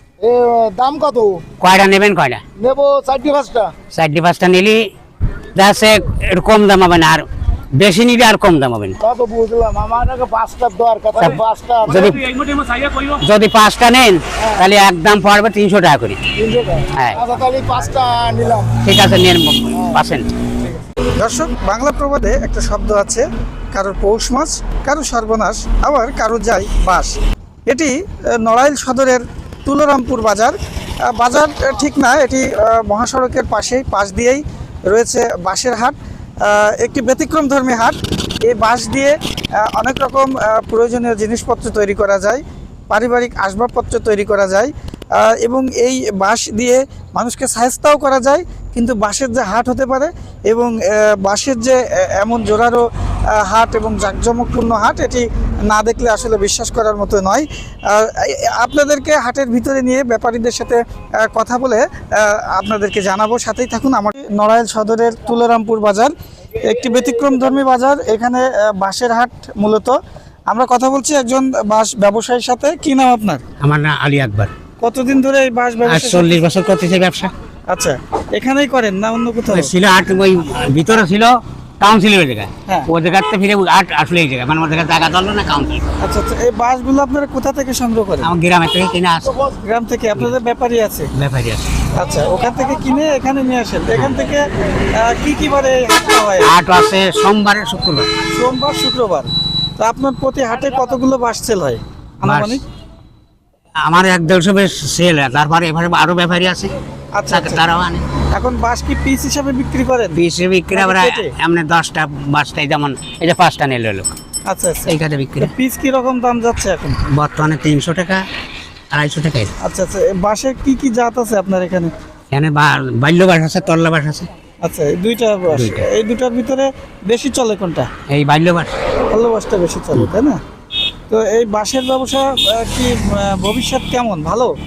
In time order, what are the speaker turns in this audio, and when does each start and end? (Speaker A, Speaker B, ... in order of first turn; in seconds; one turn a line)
Speaker A: 0.2-1.4
Speaker B: 1.6-2.4
Speaker A: 2.6-3.7
Speaker B: 3.9-4.9
Speaker B: 5.5-9.0
Speaker A: 9.0-12.2
Speaker B: 11.2-16.2
Speaker A: 16.4-18.7
Speaker B: 18.8-20.3
Speaker A: 19.7-20.0
Speaker C: 21.2-27.1
Speaker C: 27.7-30.5
Speaker C: 31.1-70.0
Speaker C: 70.5-73.4
Speaker B: 73.6-74.5
Speaker C: 74.8-76.4
Speaker B: 75.8-77.3
Speaker C: 77.7-79.7
Speaker B: 79.5-85.8
Speaker C: 86.0-88.3
Speaker B: 88.2-89.4
Speaker C: 89.6-91.1
Speaker B: 91.1-91.7
Speaker C: 91.9-96.5
Speaker B: 96.4-98.1
Speaker C: 98.3-102.6
Speaker B: 102.2-102.6
Speaker B: 103.8-106.7
Speaker C: 107.1-107.6
Speaker B: 107.3-108.0
Speaker C: 108.3-110.2
Speaker B: 110.1-114.1
Speaker C: 110.7-111.3
Speaker C: 114.5-117.0
Speaker B: 114.9-115.5
Speaker B: 117.1-118.2
Speaker B: 118.9-119.5
Speaker C: 119.6-121.9
Speaker B: 122.3-124.3
Speaker C: 124.6-127.9
Speaker B: 125.5-125.9
Speaker B: 128.1-128.7
Speaker C: 129.1-130.4
Speaker C: 131.1-134.5